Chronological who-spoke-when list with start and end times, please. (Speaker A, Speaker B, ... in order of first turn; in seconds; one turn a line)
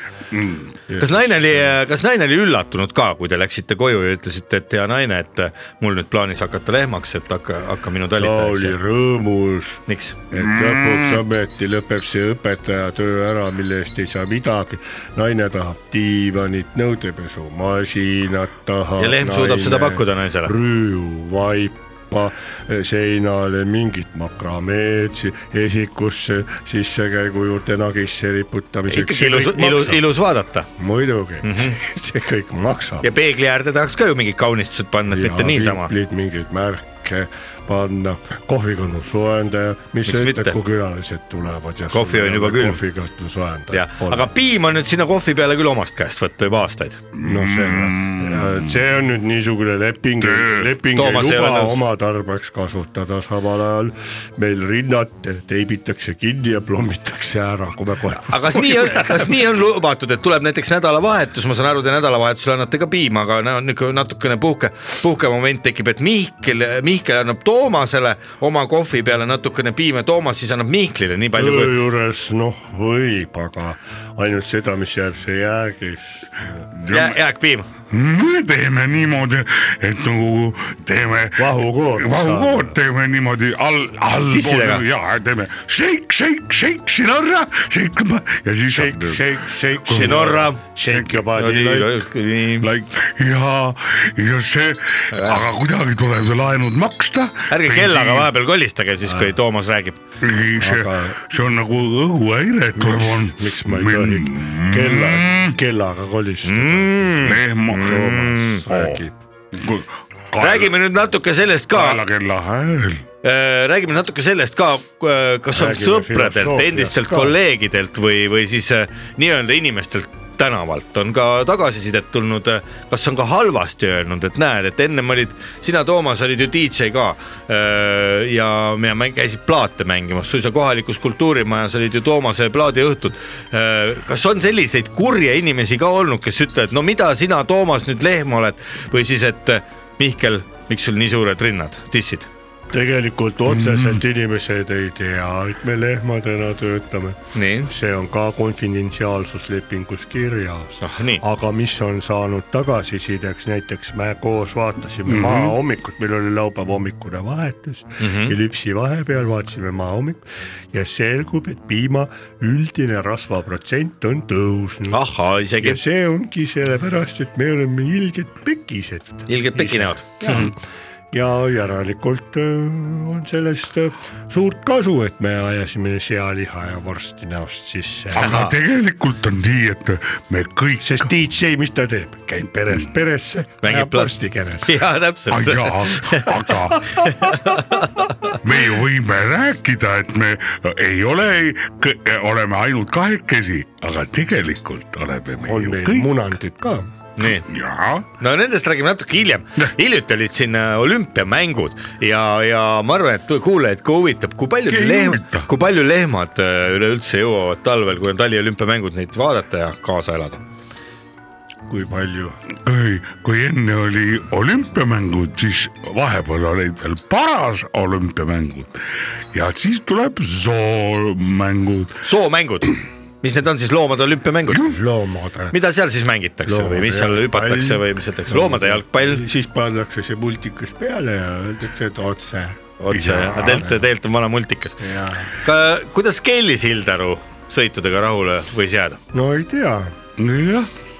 Speaker A: 0.3-0.7
Speaker B: 0.9-1.7
Speaker C: 1.0-8.8
Speaker B: 8.2-30.0
Speaker C: 9.9-10.2
Speaker A: 10.3-11.2
Speaker C: 19.0-20.5
Speaker C: 28.9-30.7
Speaker B: 30.8-33.1
Speaker C: 31.4-31.8
Speaker C: 33.0-35.9
Speaker B: 35.1-44.3
Speaker C: 40.0-40.6
Speaker C: 41.9-42.8
Speaker C: 43.7-47.0
Speaker A: 47.1-48.8
Speaker B: 47.2-59.4
Speaker A: 50.2-50.7
Speaker C: 50.9-51.8
Speaker C: 58.3-71.8
Speaker B: 71.3-76.6
Speaker A: 76.7-77.2
Speaker C: 76.9-77.7
Speaker A: 77.9-90.2
Speaker B: 81.4-82.7
Speaker C: 84.3-84.8
Speaker B: 88.7-91.9
Speaker C: 89.9-90.6
Speaker A: 90.9-91.2
Speaker C: 91.3-92.7
Speaker A: 92.6-98.3
Speaker C: 95.1-95.5
Speaker C: 97.5-100.0
Speaker B: 99.0-99.3
Speaker A: 100.2-105.5
Speaker B: 100.6-101.2
Speaker B: 102.7-109.1
Speaker C: 106.4-108.6
Speaker A: 107.2-110.7
Speaker C: 110.4-112.0
Speaker A: 111.7-113.0
Speaker C: 113.2-142.3
Speaker B: 115.5-117.3
Speaker B: 142.7-165.0
Speaker A: 143.5-144.0
Speaker C: 147.3-147.7
Speaker C: 150.8-151.2
Speaker A: 155.1-155.6
Speaker C: 158.0-158.3
Speaker C: 164.9-165.8
Speaker B: 165.6-170.6
Speaker C: 169.3-170.5
Speaker B: 171.1-178.3
Speaker A: 178.1-181.1
Speaker C: 178.2-178.6
Speaker B: 180.8-184.8
Speaker C: 183.6-184.1
Speaker C: 184.6-186.3
Speaker A: 185.3-187.1
Speaker C: 187.3-187.9
Speaker A: 188.4-196.1
Speaker B: 195.4-196.9
Speaker C: 197.2-197.5
Speaker A: 197.2-198.1
Speaker C: 198.2-210.4
Speaker A: 204.7-205.5
Speaker B: 211.7-212.4
Speaker A: 212.6-222.0
Speaker C: 222.0-224.7
Speaker B: 224.6-225.6
Speaker C: 225.5-229.2
Speaker B: 226.4-232.6
Speaker C: 232.8-234.8
Speaker A: 232.9-233.5
Speaker B: 233.3-233.8
Speaker B: 234.8-235.3
Speaker C: 235.4-239.0
Speaker B: 239.1-239.9
Speaker A: 240.2-240.7